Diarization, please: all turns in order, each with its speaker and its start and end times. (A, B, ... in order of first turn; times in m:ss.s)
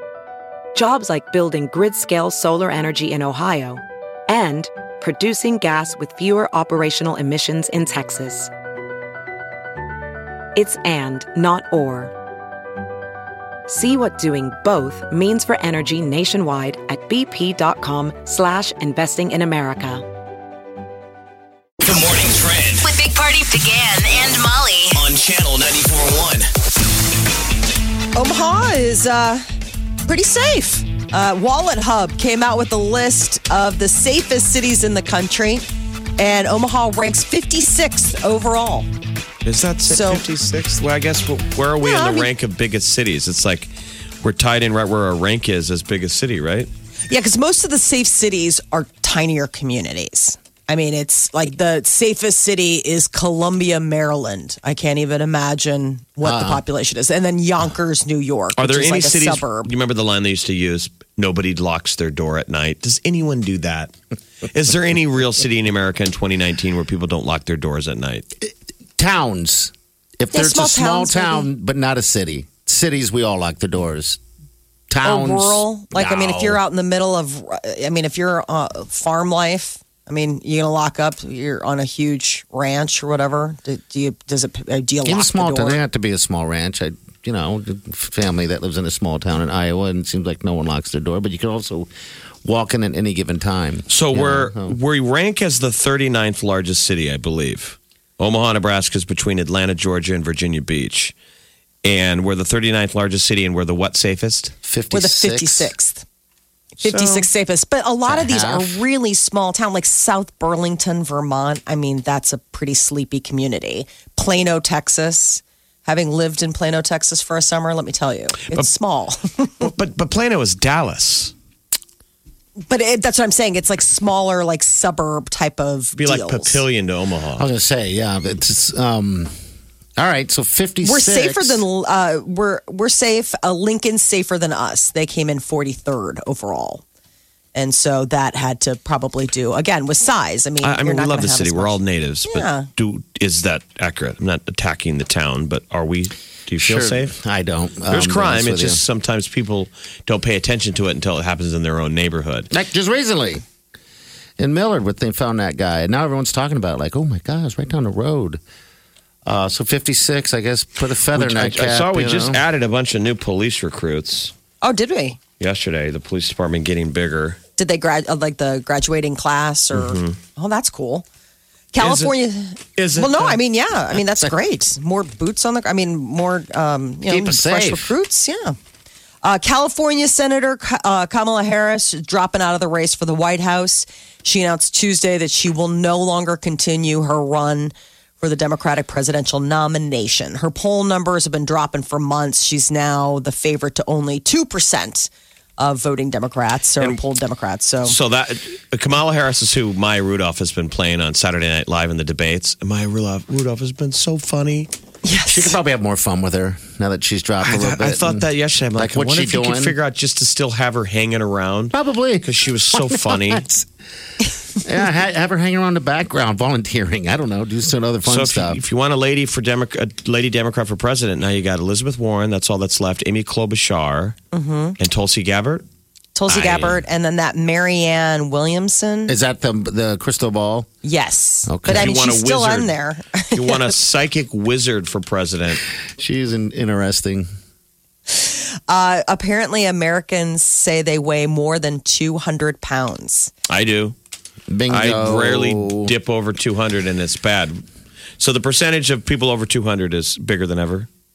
0:00.7-0:08.5 A
0:10.5-0:12.1 A
0:13.7-0:20.0 A
0:21.8-0:22.8 B
0:22.8-0:25.0 C
0:24.9-0:26.5 B
0:28.1-0:29.4 D
0:30.0-0:35.6 D
0:36.2-0:38.9 D
0:39.4-0:46.7 E
0:39.8-0:40.2 D
0:41.8-0:42.3 D
0:47.1-0:59.7 D
0:56.2-0:56.6 F
0:58.6-1:03.9 E
1:04.5-1:08.2 E
1:09.0-1:14.2 F
1:10.3-1:11.5 D
1:14.9-1:16.6 F
1:15.0-1:25.8 D
1:25.0-1:31.9 F
1:32.4-1:34.8 F
1:33.9-1:41.1 E
1:41.8-1:44.5 E
1:44.6-1:45.7 F
1:44.9-1:46.0 D
1:46.8-1:47.3 E
1:46.8-1:59.6 D
1:48.1-1:48.8 F
1:59.6-2:01.3 E
2:02.6-2:06.6 D
2:06.0-2:07.5 E
2:07.4-2:09.3 F
2:10.0-2:11.6 F
2:10.8-2:16.8 D
2:17.5-2:22.7 D
2:20.6-2:27.1 E
2:26.6-2:28.8 F
2:27.9-2:32.5 E
2:32.5-2:33.4 F
2:34.4-2:38.4 F
2:39.2-2:42.4 F
2:41.1-2:44.3 E
2:44.6-2:45.2 D
2:45.4-2:47.4 E
2:47.6-2:51.0 D
2:49.7-2:50.2 E
2:51.7-2:58.6 D
2:51.8-2:52.1 E
2:52.8-2:53.4 E
2:57.1-2:57.9 F
2:59.2-3:18.0 D
3:17.8-3:24.7 E
3:25.0-3:25.6 D
3:25.3-3:29.8 F
3:27.4-3:33.4 E
3:31.7-3:33.6 F
3:34.6-3:38.6 F
3:38.0-3:44.2 E
3:44.3-3:44.8 D
3:44.8-3:45.6 E
3:46.1-3:49.1 D
3:46.3-3:46.8 E
3:49.1-3:50.7 F
3:50.8-3:53.7 D
3:51.4-3:52.0 F
3:51.7-3:52.7 E
3:53.3-3:55.6 E
3:56.0-3:57.3 F
3:58.1-4:03.3 D
4:03.5-4:03.9 E
4:04.5-4:05.9 F
4:04.7-4:07.6 E
4:08.2-4:10.9 E